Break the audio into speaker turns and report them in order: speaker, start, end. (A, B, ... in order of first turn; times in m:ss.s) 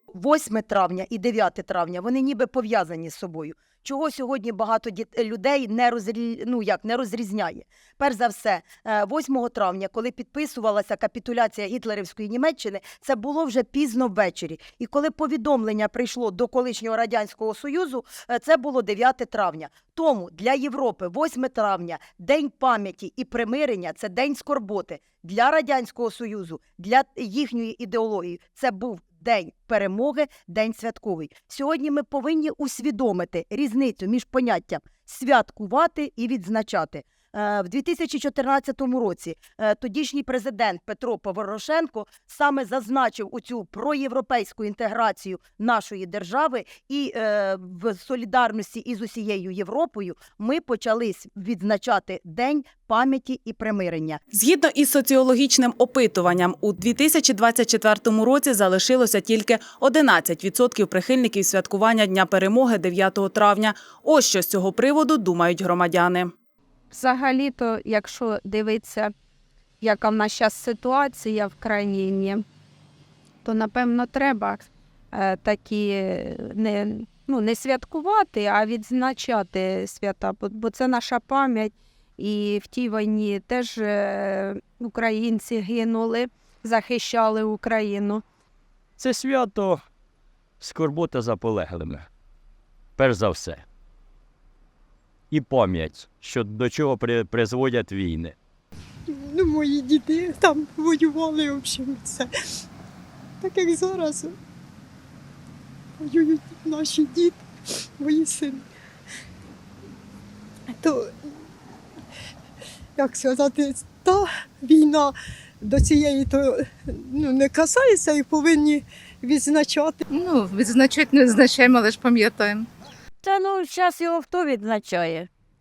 0:00.1-0:54.2 A
0:54.3-1:06.3 B
1:06.9-1:09.1 C
1:09.8-1:12.4 C
1:13.4-1:28.2 C
1:29.0-1:29.8 D
1:30.6-1:32.1 D
1:33.0-1:33.6 D
1:35.3-1:38.4 D
1:39.2-1:42.2 E
1:43.4-1:44.3 E
1:46.0-1:47.4 E
1:48.0-1:48.6 E
1:53.0-2:00.0 E
2:00.1-2:02.6 F
2:03.2-2:05.3 G